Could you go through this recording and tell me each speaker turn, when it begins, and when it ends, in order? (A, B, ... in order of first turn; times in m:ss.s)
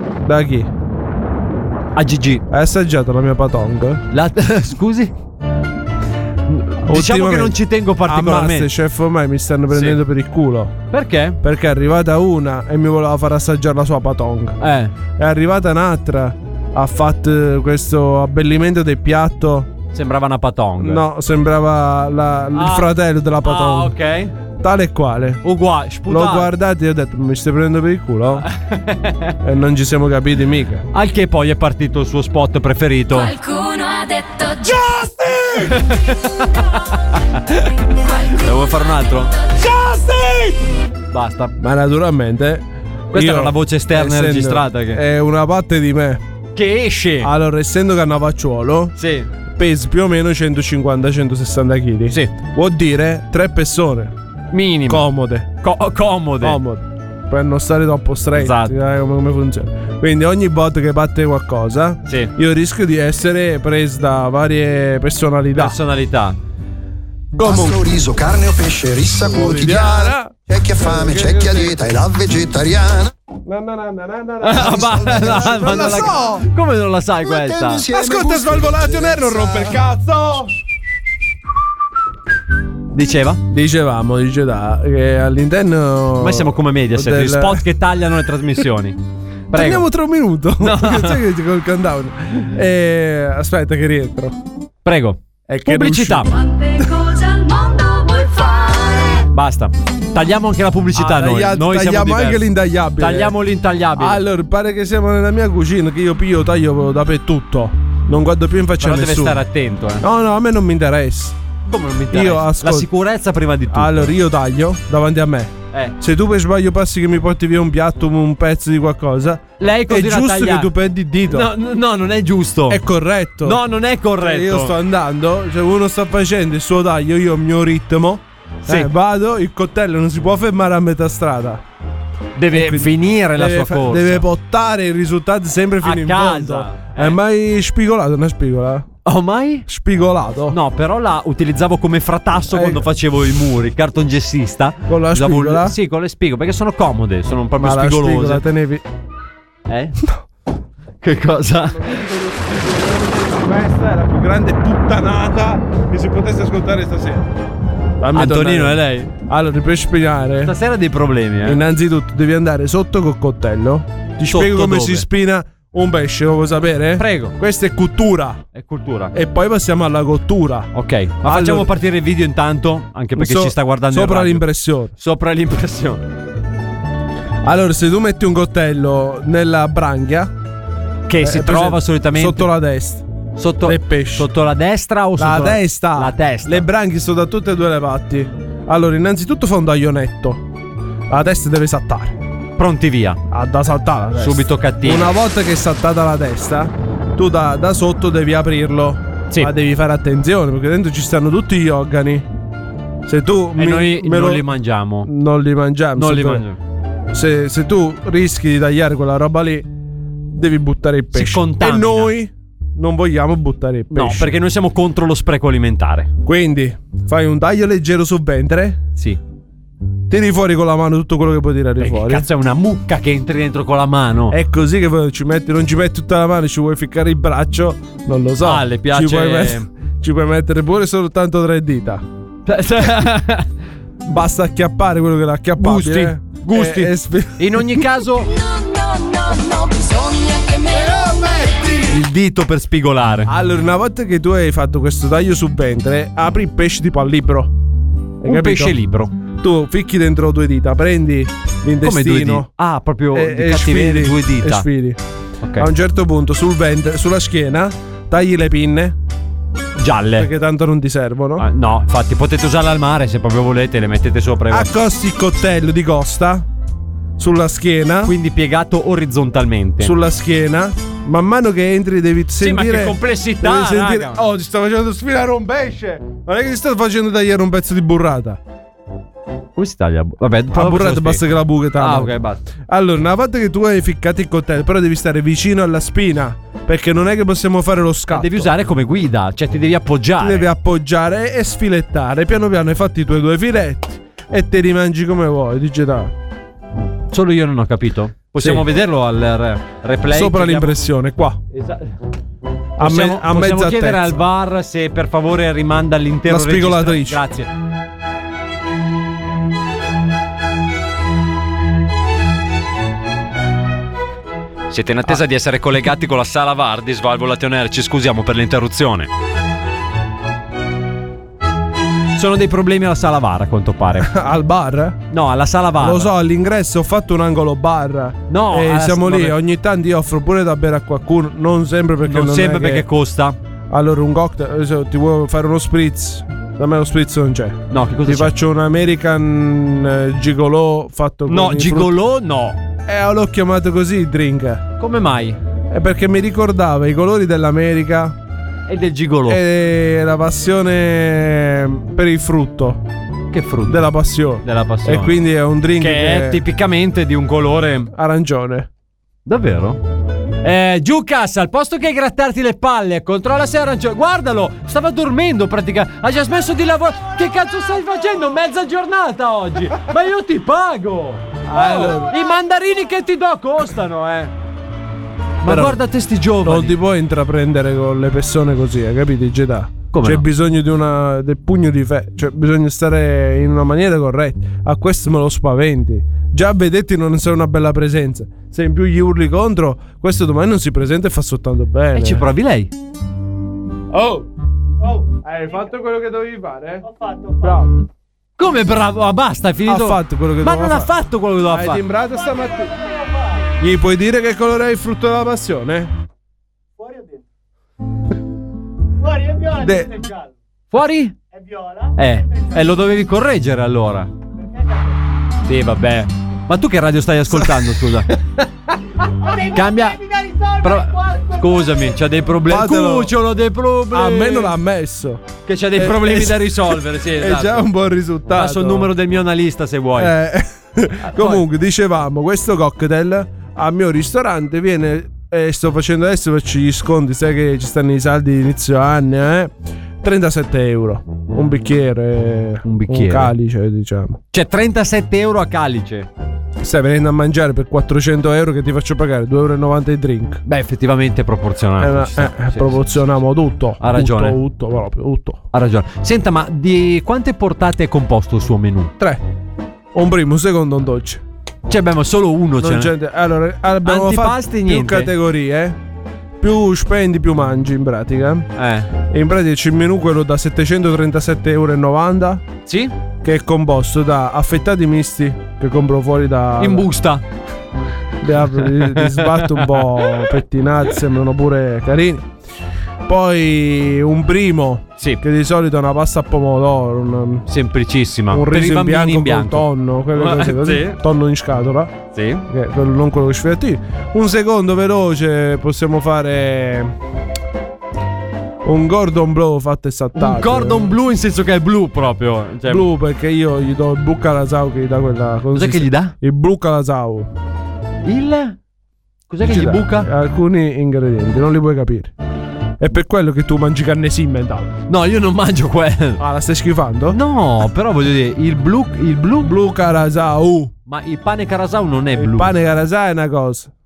0:00.2-0:00.7 A
0:01.9-0:02.4 B
0:02.5-0:04.0 A
0:04.1-0:05.1 B
0:06.5-0:08.7 B
0:06.8-0:10.7 A
0:09.7-0:10.0 B
0:10.9-0:11.4 B
0:11.4-0:14.6 A
0:14.6-0:14.9 B
0:15.2-0:19.7 A
0:19.9-0:21.0 B
0:20.8-0:23.9 A
0:22.5-0:22.9 B
0:23.4-0:24.3 B
0:24.6-0:25.4 A
0:25.4-0:26.5 B
0:26.1-0:28.4 A
0:28.4-0:29.3 B
0:29.4-0:30.8 A
0:30.9-0:33.3 B
0:33.1-0:34.9 C
0:34.9-0:35.7 A
0:35.5-0:36.7 B
0:37.3-0:39.3 B
0:39.6-0:40.4 A
0:41.1-0:41.5 B
0:41.6-0:46.2 A
0:43.1-0:45.0 B
0:46.5-0:47.3 B
0:47.2-0:48.9 A
0:49.0-0:49.3 B
0:49.6-0:54.1 A
0:54.5-0:55.1 B
0:54.9-0:55.5 A
0:55.6-0:56.6 B
0:56.4-1:05.8 A
0:58.4-0:58.7 B
1:02.0-1:02.3 B
1:05.5-1:06.4 B
1:07.4-1:13.1 D
1:07.4-1:07.8 A
1:09.3-1:11.9 A
1:13.4-1:16.4 A
1:14.4-1:17.8 B
1:15.4-1:16.1 D
1:17.2-1:19.8 D
1:17.9-1:20.5 A
1:22.9-1:23.4 B
1:23.5-1:27.6 A
1:26.2-1:29.0 B
1:29.5-1:29.8 B
1:29.5-1:34.4 A
1:30.6-1:31.2 B
1:34.8-1:36.3 B
1:35.5-1:36.3 A
1:36.4-1:39.2 C
1:39.3-1:42.4 B
1:40.9-1:43.4 A
1:43.0-1:44.2 B
1:43.9-1:49.4 A
1:48.8-1:50.0 B
1:50.0-1:51.4 A
1:51.7-1:54.1 B
1:52.1-1:52.9 A
1:53.7-2:01.5 A
1:59.6-2:00.7 B
2:01.3-2:02.8 B
2:02.7-2:03.6 A
2:03.4-2:04.7 B
2:04.2-2:11.6 A
2:08.6-2:08.9 B
2:12.4-2:14.2 B
2:12.5-2:18.9 A
2:15.8-2:17.2 B
2:19.0-2:19.7 B
2:19.7-2:20.6 A
2:20.5-2:28.4 B
2:22.5-2:22.8 A
2:24.9-2:25.8 A
2:27.6-2:28.8 A
2:29.7-2:30.0 B
2:31.0-2:32.0 B
2:31.7-2:37.3 A
2:38.0-2:40.5 A
2:38.1-2:39.1 B
2:40.4-2:41.6 B
2:41.4-2:48.4 A
2:44.3-2:45.0 B
2:47.0-2:47.3 B
2:48.5-2:49.1 B
2:49.1-2:50.7 A
2:50.7-2:54.4 B
2:51.2-2:51.7 A
2:53.2-2:54.9 A
2:55.0-2:56.0 B
2:57.4-3:00.3 A
3:01.1-3:02.5 B
3:01.2-3:03.0 A
3:03.4-3:06.6 B
3:03.6-3:04.3 A
3:05.2-3:10.4 A
3:11.1-3:12.2 A
3:12.6-3:13.2 B
3:13.3-3:22.2 A
3:14.2-3:15.1 B
3:23.0-3:24.5 A
3:23.6-3:25.1 B
3:25.0-3:26.4 A
3:26.0-3:26.6 B
3:27.1-3:29.7 A
3:30.3-3:34.3 A
3:31.1-3:32.1 B
3:33.9-3:36.1 B
3:36.2-3:38.8 A
3:40.1-3:42.3 A
3:41.8-3:44.4 B
3:44.3-3:52.0 A
3:48.4-3:49.6 B
3:52.4-3:53.5 B
3:54.0-3:57.9 A
3:55.6-3:58.3 B
3:58.4-4:01.0 C
4:00.7-4:02.0 A
4:01.9-4:03.3 B
4:03.3-4:07.5 A
4:08.2-4:08.8 A
4:08.2-4:09.1 B
4:09.4-4:12.5 A
4:11.8-4:14.7 B
4:13.1-4:15.0 A
4:15.4-4:15.7 B
4:15.6-4:19.0 A
4:19.8-4:20.3 B
4:20.1-4:21.5 A
4:21.4-4:24.7 B
4:24.5-4:26.4 A
4:27.2-4:28.1 A
4:28.0-4:29.9 B
4:29.8-4:38.4 A
4:32.4-4:34.2 B
4:39.6-4:41.2 B
4:40.5-4:42.1 A
4:41.8-4:42.4 B
4:42.7-4:48.5 A
4:48.1-4:50.5 B
4:50.2-4:56.1 A
4:57.1-5:00.8 B
4:58.4-4:58.7 A
5:00.1-5:01.4 A
5:01.5-5:01.9 B
5:02.8-5:04.2 A
5:02.8-5:07.5 B
5:06.2-5:07.2 A
5:14.7-5:19.1 B
5:22.2-5:24.1 B
5:24.0-5:25.0 A
5:25.1-5:26.1 B
5:25.8-5:32.8 A
5:28.3-5:29.4 B
5:32.0-5:33.4 B
5:33.7-5:42.0 A
5:37.7-5:38.3 B
5:41.3-5:42.6 B
5:42.8-5:44.6 A
5:44.8-5:45.4 B
5:45.7-5:48.2 A
5:48.7-5:49.4 B
5:49.3-5:52.8 A
5:53.3-5:53.8 B
5:53.7-5:56.4 A
5:54.4-5:55.2 B
5:55.8-5:57.9 B
5:57.9-5:58.7 A
5:59.2-5:59.8 B
6:00.4-6:14.3 B
6:11.5-6:12.1 A
6:15.4-6:16.8 B
6:15.4-6:15.8 A
6:16.4-6:32.2 A
6:19.9-6:20.2 B
6:31.9-6:32.7 B
6:33.9-6:34.3 A
6:34.8-6:35.7 E
6:35.2-6:36.8 A
6:36.8-6:37.7 E
6:37.4-6:37.7 A
6:38.4-6:41.8 B
6:39.6-6:42.7 A
6:42.0-6:43.5 E
6:43.6-6:45.9 A
6:46.8-6:47.2 E
6:49.0-6:50.3 E
6:49.6-6:49.9 A
6:50.7-6:51.1 B
6:51.3-6:52.8 E
6:52.0-6:54.1 B
6:54.4-6:55.0 E
6:55.4-6:58.1 B
6:57.3-6:57.6 A
6:59.2-7:02.0 E
6:59.5-7:00.0 B
7:00.6-7:04.5 B
7:02.4-7:03.1 A
7:03.9-7:08.9 A
7:05.4-7:07.6 B
7:08.3-7:10.1 B
7:10.0-7:24.2 A
7:11.1-7:11.4 B
7:22.6-7:23.3 B
7:24.3-7:26.1 B
7:26.6-7:30.4 A
7:30.4-7:32.8 B
7:31.8-7:35.4 A
7:33.8-7:34.4 B
7:35.5-7:38.9 B
7:39.9-7:41.2 A
7:41.7-7:42.9 B
7:42.6-7:45.8 A
7:43.8-7:45.1 B
7:46.4-7:48.5 A
7:48.6-7:48.9 B
7:49.1-7:52.4 A
7:52.6-7:52.9 B
7:53.2-7:56.9 A
7:56.6-7:57.2 B
7:58.2-8:02.3 A
7:58.6-8:00.3 B
8:03.0-8:07.4 A
8:07.5-8:11.0 B
8:08.3-8:11.9 A
8:12.1-8:12.4 B
8:12.5-8:16.9 A
8:18.6-8:20.9 A
8:20.2-8:22.8 B
8:22.6-8:27.3 A
8:25.5-8:26.1 B
8:28.0-8:28.6 B
8:29.3-8:30.1 B
8:29.4-8:32.1 A
8:32.8-8:34.7 A
8:34.9-8:36.2 B
8:36.2-8:37.2 A
8:37.1-8:39.5 B
8:39.4-8:40.7 A
8:40.9-8:42.5 B
8:42.1-8:43.7 A